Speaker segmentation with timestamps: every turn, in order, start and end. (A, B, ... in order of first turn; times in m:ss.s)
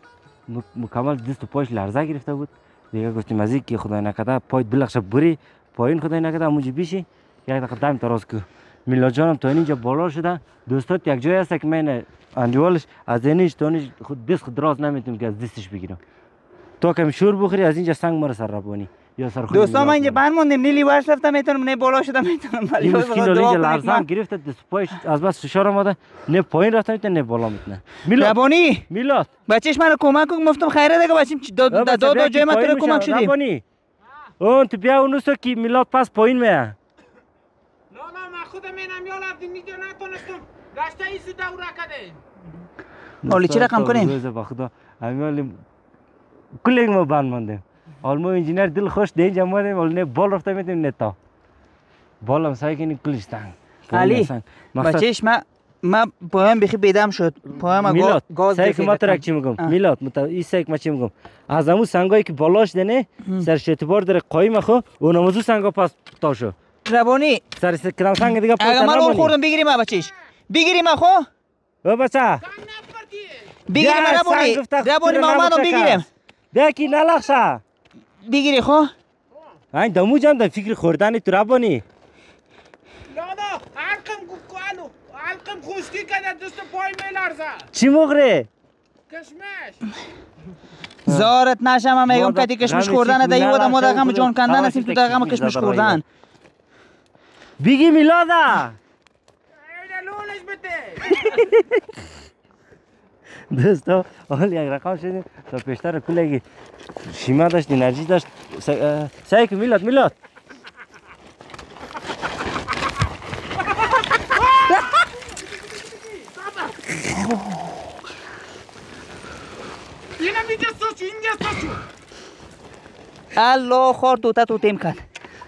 0:00.5-0:16.0 A
0:16.8-0:20.2 A
0:19.5-0:24.0 B
0:22.8-0:28.4 A
0:28.1-0:28.8 B
0:28.9-0:29.3 A
0:29.5-0:33.3 B
0:31.7-0:33.6 A
0:34.4-0:36.8 A
0:37.9-0:42.2 C
0:43.2-0:45.6 A
0:43.3-0:44.1 B
0:46.6-0:51.2 A
0:52.2-0:55.0 A
0:53.9-0:59.7 B
0:57.8-1:06.5 A
1:06.8-1:07.4 B
1:07.6-1:09.3 A
1:08.2-1:11.3 B
1:11.8-1:12.4 A
1:12.4-1:13.6 C
1:13.7-1:16.1 B
1:13.7-1:17.6 A
1:18.2-1:18.9 B
1:19.7-1:21.8 A
1:23.1-1:27.7 C
1:27.7-1:28.5 A
1:29.1-1:29.8 C
1:31.0-1:31.3 A
1:31.1-1:36.0 B
1:32.1-1:36.0 A
1:37.6-1:38.8 A
1:39.6-1:41.4 C
1:41.3-1:41.7 A
1:43.5-1:46.4 A
1:47.0-1:50.1 A
1:54.3-1:54.7 C
1:56.1-1:56.8 C
2:00.2-2:01.8 C
2:03.3-2:05.0 B